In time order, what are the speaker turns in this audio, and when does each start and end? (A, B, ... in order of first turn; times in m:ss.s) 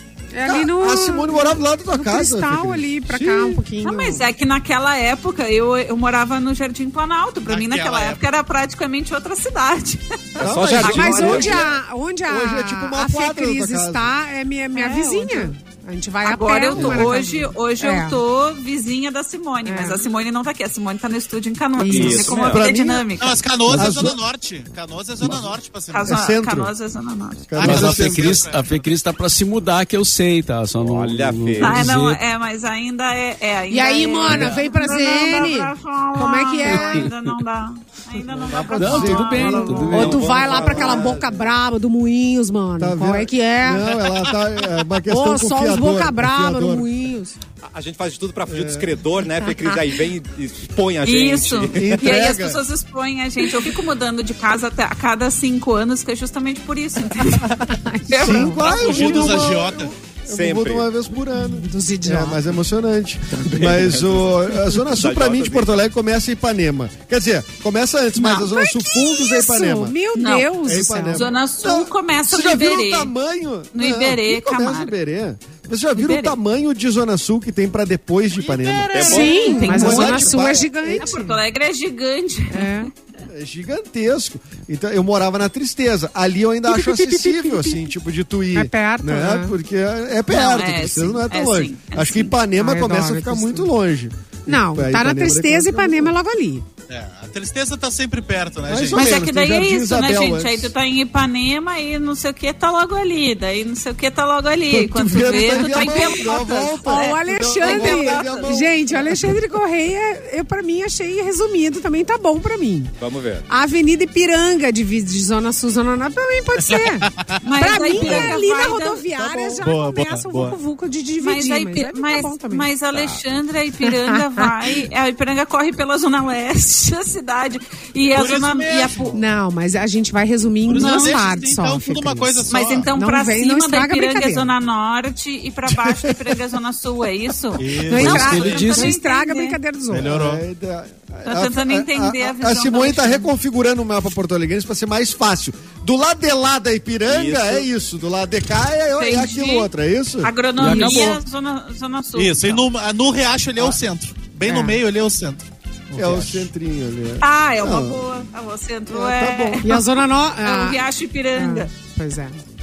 0:00.3-0:04.3 A
0:00.4-0:03.6 B
0:03.8-0:11.7 C
0:07.4-0:08.2 D
0:10.4-0:11.7 E
0:10.4-0:11.7 B
0:10.8-0:18.2 A
0:12.3-0:14.1 B
0:14.8-0:15.5 C
0:16.2-0:23.4 C
0:16.7-0:17.1 B
0:19.7-0:20.1 A
0:21.8-0:22.4 A
0:21.9-0:22.7 E
0:21.9-0:23.1 B
0:23.2-0:26.3 D
0:23.7-0:24.2 B
0:25.2-0:25.5 B
0:25.9-0:27.5 C
0:26.1-0:26.7 B
0:27.5-0:28.5 B
0:27.6-0:29.0 D
0:27.6-0:32.2 F
0:30.8-0:31.9 E
0:31.6-0:40.2 C
0:33.7-0:37.1 A
0:34.3-0:34.6 F
0:36.7-0:37.1 F
0:38.3-0:41.2 B
0:38.8-0:40.3 F
0:39.4-0:41.3 E
0:39.9-0:44.1 A
0:42.8-0:46.9 B
0:45.0-0:47.4 A
0:47.6-0:51.9 E
0:48.5-0:48.9 B
0:51.0-0:59.4 C
0:51.8-0:52.6 B
0:57.6-0:58.6 A
0:58.2-1:10.0 B
0:58.6-0:59.9 D
1:00.3-1:00.9 E
1:01.4-1:02.5 A
1:03.3-1:05.8 E
1:08.2-1:08.8 C
1:09.2-1:11.2 A
1:10.2-1:10.5 C
1:10.6-1:21.1 B
1:11.1-1:13.1 C
1:13.7-1:14.9 C
1:16.0-1:16.4 C
1:18.4-1:19.4 D
1:18.9-1:20.0 E
1:19.0-1:20.4 C
1:19.0-1:21.4 A
1:20.9-1:22.9 C
1:22.5-1:22.9 A
1:23.3-1:36.2 B
1:26.7-1:27.9 A
1:28.6-1:29.6 A
1:30.3-1:32.3 C
1:32.6-1:33.7 A
1:34.5-1:36.7 A
1:36.9-1:39.2 D
1:38.7-1:40.7 B
1:38.9-1:48.3 C
1:44.7-1:49.4 B
1:45.6-1:46.2 A
1:46.8-1:52.9 A
1:47.7-1:48.6 E
1:53.0-1:53.4 E
1:53.5-2:02.7 A
1:56.6-1:57.4 D
1:57.4-1:59.0 C
1:58.0-1:58.3 E
1:59.1-1:59.7 B
1:59.6-2:00.6 D
2:01.2-2:09.2 C
2:02.9-2:03.2 E
2:03.8-2:04.8 A
2:08.1-2:09.2 D
2:09.1-2:14.5 A
2:10.6-2:12.9 D
2:10.7-2:11.1 C
2:12.5-2:19.6 C
2:17.6-2:18.7 D
2:17.8-2:20.1 A
2:18.0-2:19.0 F
2:19.9-2:20.4 D
2:19.9-2:30.8 B
2:21.3-2:23.3 C
2:27.1-2:27.7 E
2:29.0-2:29.7 C
2:30.2-2:32.5 C
2:30.6-2:31.2 F
2:32.1-2:36.5 D
2:34.4-2:34.8 A
2:36.0-2:38.1 B
2:37.2-2:39.9 C
2:38.9-2:39.8 B
2:39.6-2:40.8 A
2:40.4-2:41.7 C
2:41.4-2:42.4 A